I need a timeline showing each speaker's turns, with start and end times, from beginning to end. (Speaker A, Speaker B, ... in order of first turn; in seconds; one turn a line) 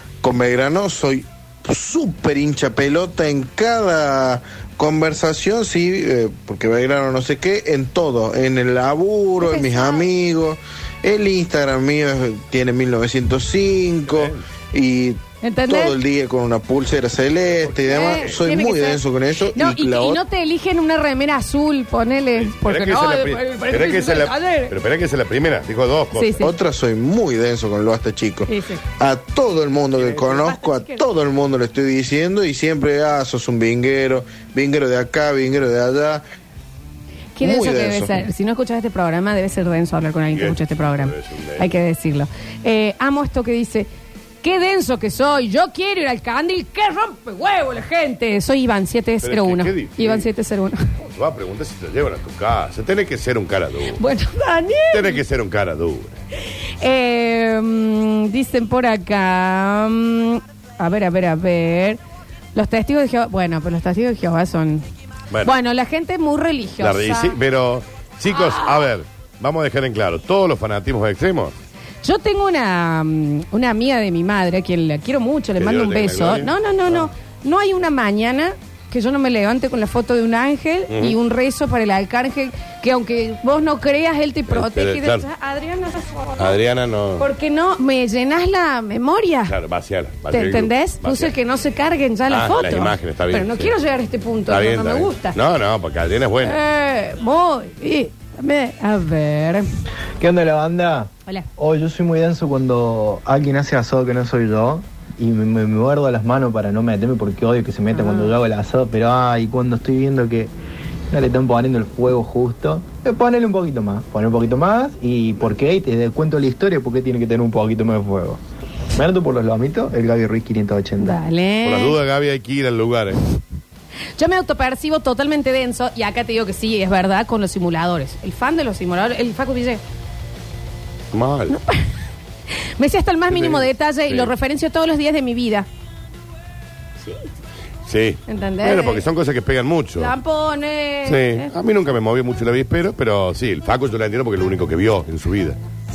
Speaker A: 0.2-20.2
Speaker B: 9.4-10.1
Speaker C: 14.1-14.4
Speaker B: 15.4-16.0
Speaker C: 17.4-18.4
Speaker B: 17.9-19.0
Speaker B: 19.5-24.7
Speaker C: 22.4-26.5
Speaker B: 26.1-26.5
Speaker A: 26.4-36.2
Speaker B: 28.5-28.8
Speaker C: 30.0-30.3
Speaker B: 30.2-31.0
Speaker B: 37.4-43.9
Speaker A: 37.4-38.2
Speaker C: 40.3-41.7
Speaker B: 44.4-50.9
Speaker C: 49.2-50.2
Speaker C: 51.1-54.0
Speaker B: 54.0-55.2
Speaker C: 54.9-56.2
Speaker B: 56.8-62.0
Speaker B: 62.5-64.9
Speaker B: 65.5-67.3
Speaker C: 66.8-71.5
Speaker B: 68.3-68.9
Speaker B: 72.0-86.6
Speaker C: 75.6-77.1
Speaker C: 80.9-81.2
Speaker C: 84.5-85.2
Speaker C: 86.4-87.3
Speaker B: 87.2-89.5
Speaker C: 89.5-91.3
Speaker B: 90.3-95.4
Speaker C: 92.3-93.7
Speaker C: 94.5-96.6
Speaker B: 96.4-99.7
Speaker D: 100.2-110.5
Speaker B: 107.9-108.4
Speaker D: 111.1-118.4
Speaker D: 119.0-121.2
Speaker B: 121.0-122.0
Speaker C: 121.6-123.2
Speaker B: 124.2-129.8
Speaker C: 131.1-131.6
Speaker B: 131.5-131.8
Speaker B: 132.8-135.7
Speaker C: 133.3-134.3
Speaker C: 137.9-140.1
Speaker B: 138.3-139.1
Speaker B: 140.0-141.5
Speaker C: 141.1-145.6